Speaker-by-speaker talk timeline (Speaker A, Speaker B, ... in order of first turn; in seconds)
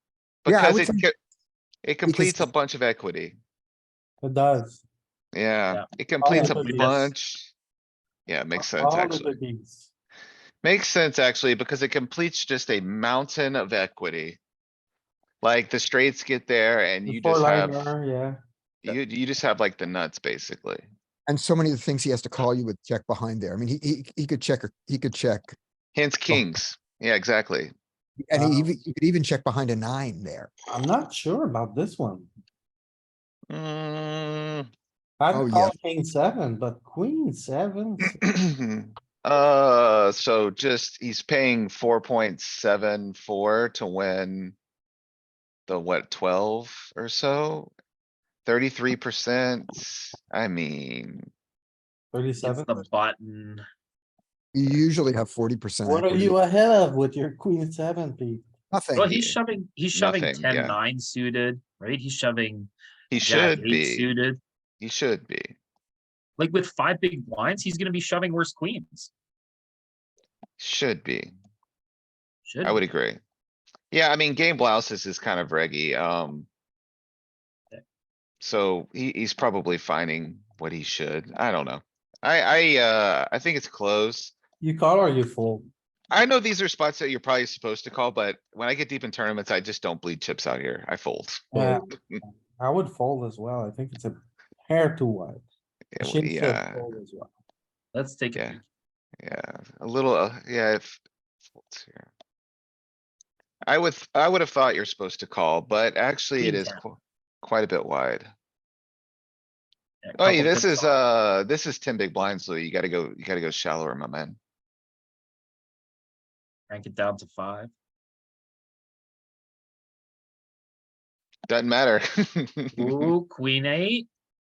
Speaker A: 0.4-1.1, 1.8-3.3, 5.3-7.5, 8.3-9.3, 10.6-14.4, 15.4-17.9, 18.8-20.9, 25.9-27.7, 33.5-34.7, 38.2-44.5, 45.7-47.7, 48.4-51.3, 59.1-59.4, 59.9-60.8, 63.1-64.1, 64.8-65.5, 70.6-71.3, 72.6-73.2, 73.9-76.5, 78.4-84.3, 86.1-92.2, 95.9-96.8, 99.2-101.0, 101.6-102.1, 103.7-108.3, 110.2-114.4, 121.5-123.1
Speaker B: 0.5-1.0, 2.0-2.5, 21.3-25.5, 28.2-30.5, 35.3-35.8, 54.5-56.4, 58.7-59.1
Speaker C: 4.2-4.8, 6.2-7.1, 8.5-9.9, 17.0-18.4, 28.3-28.7, 30.7-32.3, 35.2-38.2, 52.1-52.8, 55.8-58.5, 84.6-85.7, 91.5-95.4, 96.0-97.3
Speaker D: 6.5-6.9, 52.4-53.6, 59.0-64.4, 66.4-69.1, 72.5-72.8, 97.9-98.6, 106.4-106.8, 110.0-110.9, 116.7-117.7, 122.7-124.1